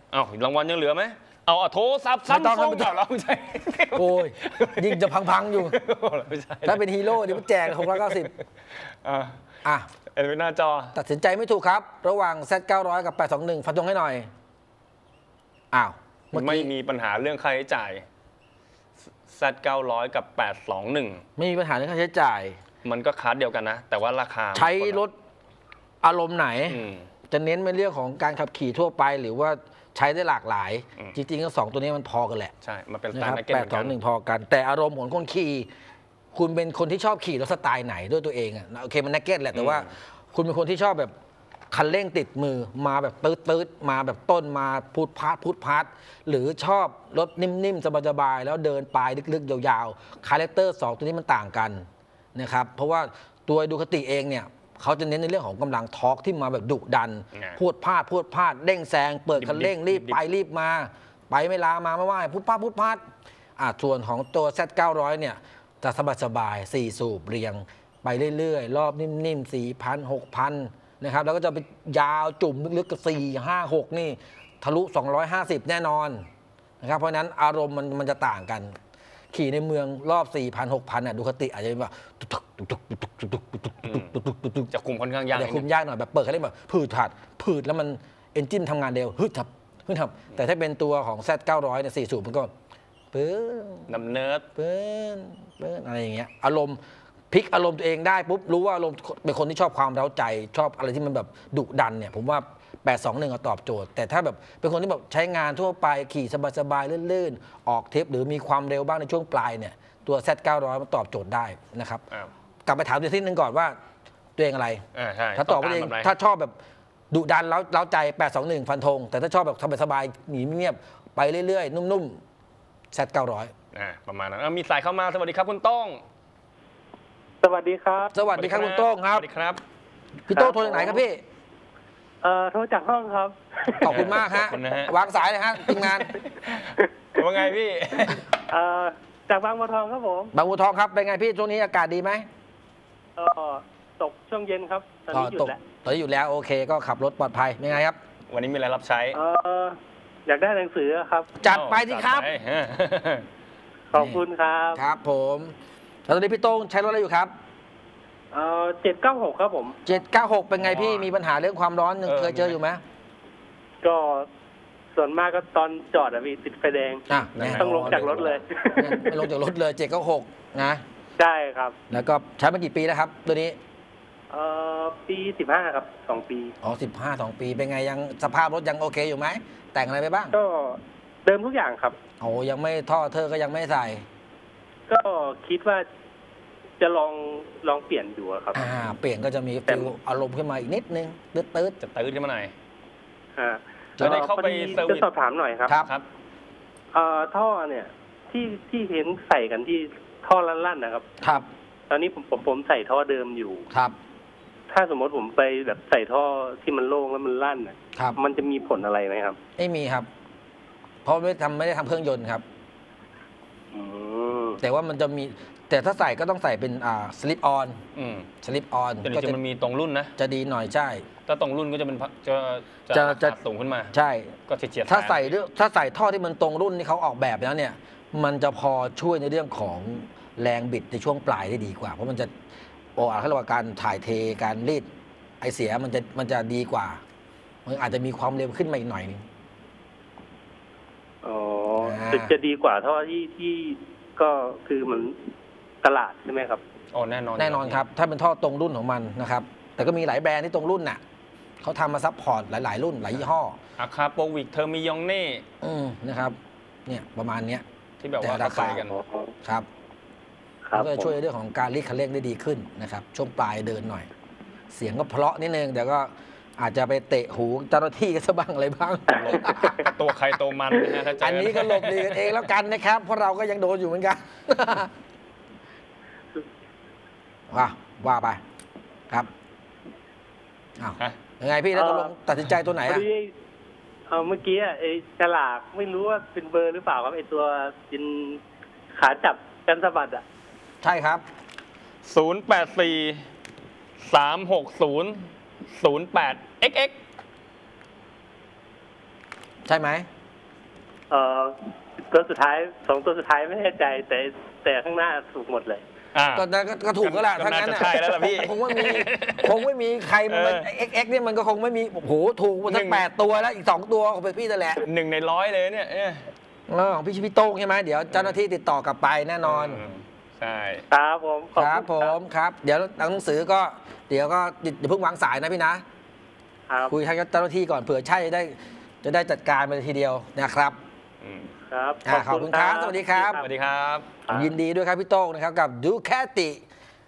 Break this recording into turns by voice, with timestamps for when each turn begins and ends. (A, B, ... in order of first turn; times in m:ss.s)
0:00.1-0:08.3 A
0:02.3-0:03.0 B
0:03.9-0:05.8 B
0:06.6-0:08.3 B
0:09.0-0:09.3 A
0:10.1-0:10.9 A
0:10.9-0:14.3 B
0:15.7-0:16.7 B
0:16.3-0:18.0 A
0:19.3-0:21.2 A
0:21.4-0:22.6 B
0:22.8-0:25.0 A
0:24.5-0:25.1 B
0:26.0-0:32.5 B
0:26.7-0:27.1 A
0:32.6-0:34.0 A
0:33.1-0:35.7 B
0:36.3-0:41.1 B
0:39.5-0:39.9 A
0:41.7-0:51.8 B
0:52.3-1:03.0 B
0:57.3-0:57.6 A
0:59.4-1:00.2 A
1:03.6-1:16.2 B
1:16.8-1:18.7 B
1:19.3-1:24.7 B
1:23.8-1:24.1 A
1:24.7-1:25.6 A
1:25.3-1:32.5 B
1:33.1-1:33.9 B
1:33.9-1:34.4 A
1:34.6-1:36.8 B
1:37.3-1:52.0 B
1:52.6-1:53.7 B
1:54.4-1:54.8 B
1:54.9-1:56.1 A
1:55.4-1:56.5 B
1:57.1-2:02.2 B
2:02.9-2:03.5 B
2:03.7-2:06.0 A
2:07.4-2:08.1 C
2:08.1-2:09.2 B
2:08.3-2:09.6 A
2:10.3-2:11.2 B
2:10.3-2:11.0 C
2:12.2-2:14.0 C
2:13.8-2:16.2 B
2:13.8-2:14.9 A
2:15.7-2:18.2 A
2:18.5-2:20.3 C
2:20.3-2:22.2 B
2:23.2-2:25.6 C
2:25.1-2:28.0 B
2:28.3-2:29.2 A
2:29.1-2:31.3 C
2:31.4-2:32.3 B
2:31.5-2:33.2 A
2:33.9-2:34.8 C
2:33.9-2:35.5 B
2:36.0-2:37.3 B
2:38.3-2:39.8 C
2:39.8-2:42.8 B
2:40.6-2:41.1 A
2:42.0-2:42.6 A
2:43.8-2:44.3 C
2:44.9-2:47.0 C
2:47.1-2:50.8 B
2:47.3-2:48.0 A
2:47.6-2:49.2 C
2:51.2-2:51.8 C
2:51.9-2:53.6 B
2:54.3-2:56.5 C
2:56.6-3:00.3 B
3:00.3-3:02.0 C
3:02.2-3:04.0 B
3:04.9-3:05.8 C
3:06.8-3:08.6 C
3:08.5-3:11.8 B
3:11.8-3:12.5 A
3:13.4-3:15.8 C
3:14.0-3:14.3 B
3:14.0-3:15.1 A
3:16.9-3:21.0 C
3:21.2-3:21.5 B
3:21.9-3:23.6 C
3:24.7-3:29.4 C
3:29.6-3:30.1 B
3:31.0-3:32.4 B
3:33.7-3:34.6 C
3:34.6-3:37.8 B
3:37.9-3:38.3 A
3:38.4-3:39.4 B
3:39.0-3:40.1 A
3:40.2-3:41.0 B
3:41.3-3:43.9 A
3:42.9-3:43.4 B
3:43.9-3:44.3 B
3:44.5-3:45.4 A
3:44.9-3:52.3 B
3:53.0-3:54.8 B
3:55.4-3:57.0 B
3:57.6-3:59.2 B
4:01.2-4:05.1 C
4:01.8-4:02.3 B
4:05.8-4:06.6 C
4:06.9-4:07.8 A
4:07.4-4:11.0 B
4:11.6-4:13.6 B
4:13.8-4:15.4 A
4:15.6-4:17.6 B
4:18.0-4:19.0 A
4:18.2-4:18.8 B
4:18.8-4:19.3 C
4:20.6-4:21.2 C
4:20.7-4:24.1 B
4:24.7-4:30.0 B
4:29.2-4:32.5 A
4:31.2-4:34.9 B
4:37.5-4:38.4 B
4:40.8-4:43.0 B
4:41.7-4:42.1 C
4:42.8-4:43.3 C
4:44.1-4:48.4 C
4:48.9-4:50.2 C
4:50.8-4:51.2 B
4:52.0-4:53.2 A
4:54.0-4:55.2 A
4:55.7-4:57.0 A
4:59.6-5:00.1 B
5:01.1-5:05.8 C
5:06.1-5:06.5 A
5:06.3-5:14.8 B
5:07.0-5:10.7 A
5:12.7-5:13.0 A
5:14.8-5:16.3 A
5:16.7-5:19.8 B
5:18.1-5:18.4 A
5:19.4-5:20.8 A
5:20.9-5:22.1 C
5:21.6-5:25.8 B
5:26.7-5:27.0 C
5:26.9-5:30.8 B
5:31.2-5:31.5 A
5:31.7-5:33.5 C
5:32.0-5:33.4 B
5:33.4-5:34.1 A
5:34.2-5:34.5 C
5:34.3-5:36.6 B